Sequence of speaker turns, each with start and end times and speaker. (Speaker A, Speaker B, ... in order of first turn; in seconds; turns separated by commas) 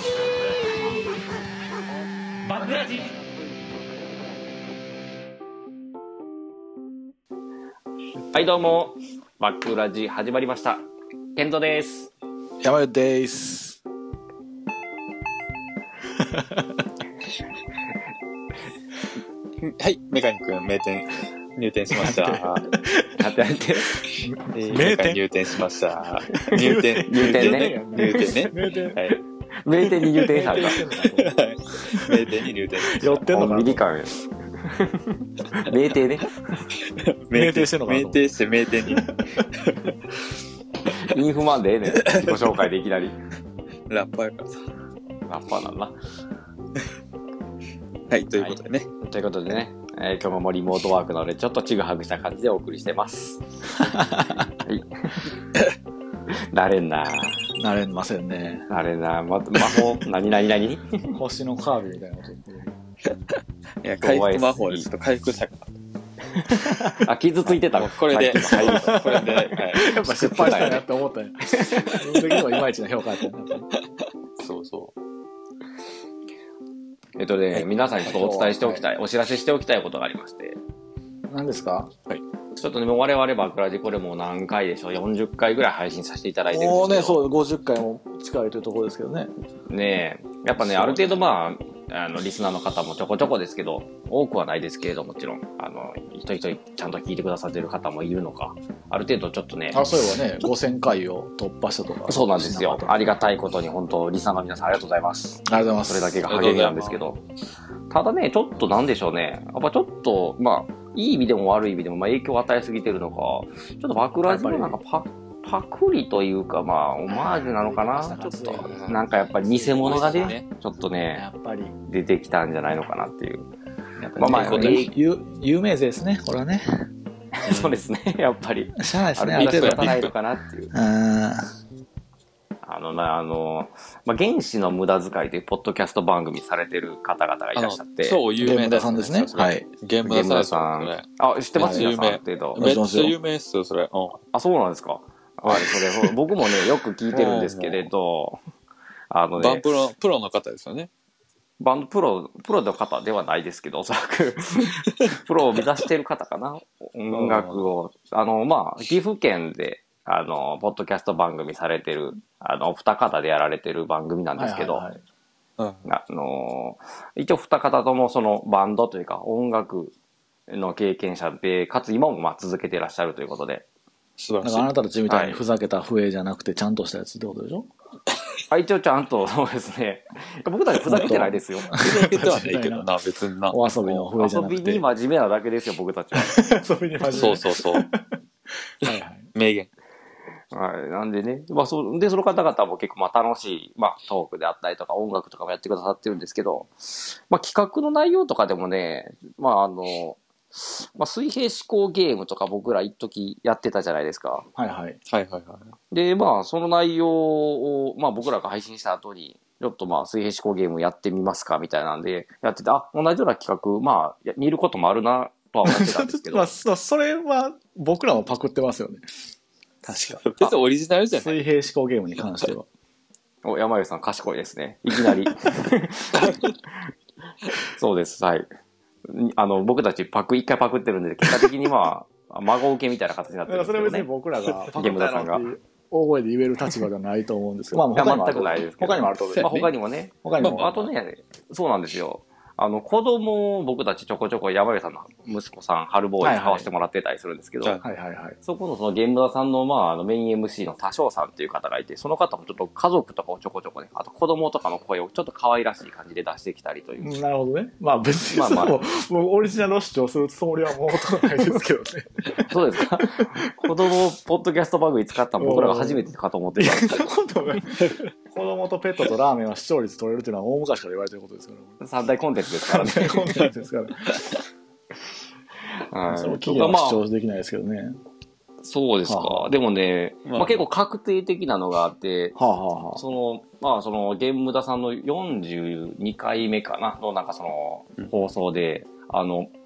Speaker A: 2.5-3.1, Speaker A: 8.3-12.1, Speaker B: 12.6-13.8, Speaker B: 16.2-16.8, Speaker C: 19.6-22.7, Speaker B: 21.9-23.1, Speaker A: 23.2-24.0, Speaker B: 24.1-25.2, Speaker C: 24.5-29.2, Speaker B: 26.5-29.1, Speaker A: 27.0-27.8, Speaker A: 29.6-30.8, Speaker B: 30.3-32.3, Speaker C: 30.4-33.2, Speaker B: 32.9-33.9, Speaker A: 33.3-36.3, Speaker C: 36.8-40.0, Speaker B: 37.3-38.3, Speaker A: 40.9-43.2, Speaker C: 42.0-42.3, Speaker C: 43.9-44.7, Speaker A: 45.3-46.0, Speaker C: 48.1-48.9, Speaker A: 48.4-53.4, Speaker B: 53.9-54.4, Speaker A: 54.6-55.3, Speaker A: 56.5-57.5, Speaker B: 57.6-58.7, Speaker A: 58.7-61.2, Speaker B: 61.1-62.8, Speaker C: 63.8-65.7, Speaker A: 64.0-64.9, Speaker A: 66.4-70.9, Speaker C: 67.5-69.8, Speaker B: 68.5-73.7, Speaker A: 71.6-71.9, Speaker C: 74.4-74.9, Speaker A: 77.2-80.6, Speaker B: 78.0-78.8, Speaker B: 81.3-81.9, Speaker A: 82.6-87.2, Speaker B: 86.5-89.3, Speaker A: 89.7-99.8, Speaker B: 90.6-91.2, Speaker B: 99.7-103.2, Speaker A: 102.1-107.2, Speaker B: 105.5-106.2, Speaker C: 106.2-107.1, Speaker A: 107.9-121.3, Speaker B: 114.3-114.8, Speaker B: 117.5-120.4, Speaker C: 118.5-120.5, Speaker B: 121.1-121.8, Speaker A: 121.9-123.5, Speaker B: 124.0-126.9, Speaker A: 124.2-125.0, Speaker C: 124.2-124.9, Speaker A: 127.4-130.7, Speaker C: 127.5-127.8, Speaker B: 128.8-130.1, Speaker C: 129.4-130.1, Speaker B: 130.7-131.5, Speaker A: 132.6-138.2, Speaker C: 137.6-144.2, Speaker B: 138.4-139.7, Speaker A: 140.0-142.7, Speaker B: 141.6-141.9, Speaker B: 142.6-143.2, Speaker A: 144.3-148.4, Speaker C: 145.5-146.1, Speaker C: 147.1-147.9, Speaker A: 149.1-149.7, Speaker C: 149.4-150.9, Speaker A: 151.6-164.8, Speaker C: 157.2-157.6, Speaker B: 164.4-165.0, Speaker C: 165.6-165.8, Speaker A: 165.9-169.9, Speaker A: 170.5-173.7, Speaker C: 174.2-174.7, Speaker B: 174.4-177.7, Speaker A: 175.1-175.4, Speaker A: 178.5-181.8, Speaker B: 180.8-182.9, Speaker C: 181.7-184.1, Speaker B: 183.5-184.9, Speaker A: 184.2-186.5, Speaker B: 186.2-188.1, Speaker C: 187.0-187.9, Speaker B: 188.8-189.3, Speaker C: 188.8-189.7, Speaker A: 190.5-204.5, Speaker B: 204.6-205.0, Speaker C: 205.1-205.7, Speaker A: 205.9-216.5, Speaker B: 215.7-219.1, Speaker B: 219.8-220.5, Speaker C: 220.2-221.4, Speaker B: 221.1-222.7, Speaker A: 223.4-226.5, Speaker A: 227.6-228.5, Speaker A: 229.1-234.1, Speaker B: 233.5-240.9, Speaker A: 234.7-235.5, Speaker A: 237.7-247.8, Speaker C: 240.4-240.7, Speaker B: 246.2-246.7, Speaker B: 247.8-248.4, Speaker A: 248.4-257.2, Speaker B: 257.0-263.8, Speaker A: 258.3-258.8, Speaker A: 262.5-267.1, Speaker B: 265.4-271.8, Speaker A: 271.8-273.4, Speaker B: 272.6-274.3, Speaker A: 275.9-277.0, Speaker B: 276.1-278.0, Speaker A: 278.6-282.4, Speaker B: 279.1-279.5, Speaker C: 280.3-280.6, Speaker B: 282.4-283.0, Speaker A: 282.9-289.5